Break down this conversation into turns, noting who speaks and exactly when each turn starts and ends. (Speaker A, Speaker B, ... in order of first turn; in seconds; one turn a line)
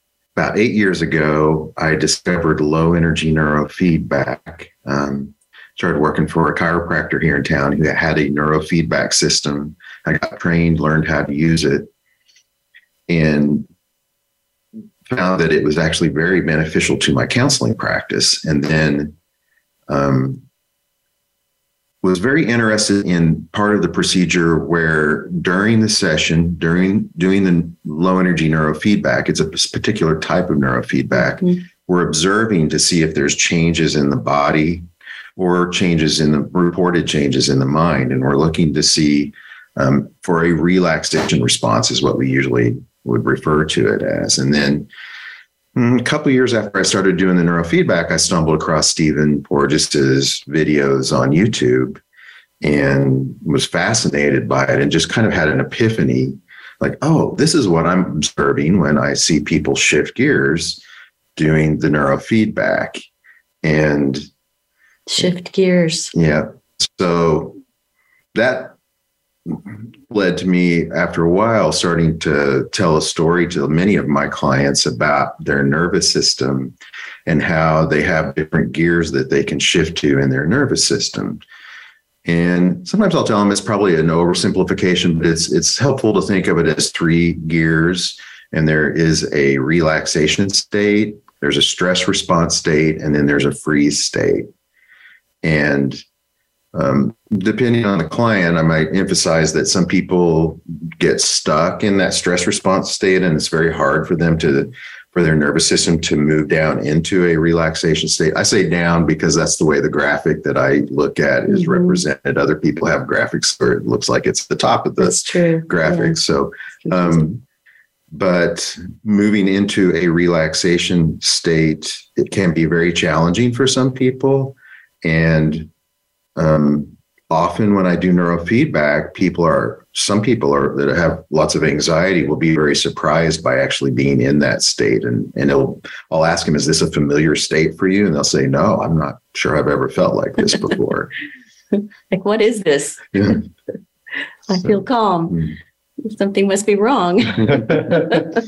Speaker A: 0.3-11.9
Speaker A: 13.1-13.7
Speaker A: 15.1-19.2
Speaker A: 19.9-20.4
Speaker A: 22.0-44.9
Speaker B: 31.1-31.6
Speaker A: 45.8-52.0
Speaker A: 52.6-60.8
Speaker A: 61.4-63.0
Speaker A: 63.6-64.3
Speaker B: 65.1-66.1
Speaker A: 66.1-67.6
Speaker A: 68.3-68.8
Speaker A: 69.5-76.8
Speaker A: 77.3-81.4
Speaker A: 82.2-94.5
Speaker A: 95.4-96.0
Speaker A: 96.7-117.4
Speaker B: 111.5-112.0
Speaker B: 115.0-116.2
Speaker B: 116.8-117.3
Speaker A: 118.1-125.7
Speaker A: 126.4-141.1
Speaker B: 141.8-143.1
Speaker A: 143.1-143.4
Speaker B: 144.5-145.4
Speaker A: 144.5-145.6
Speaker B: 146.0-148.4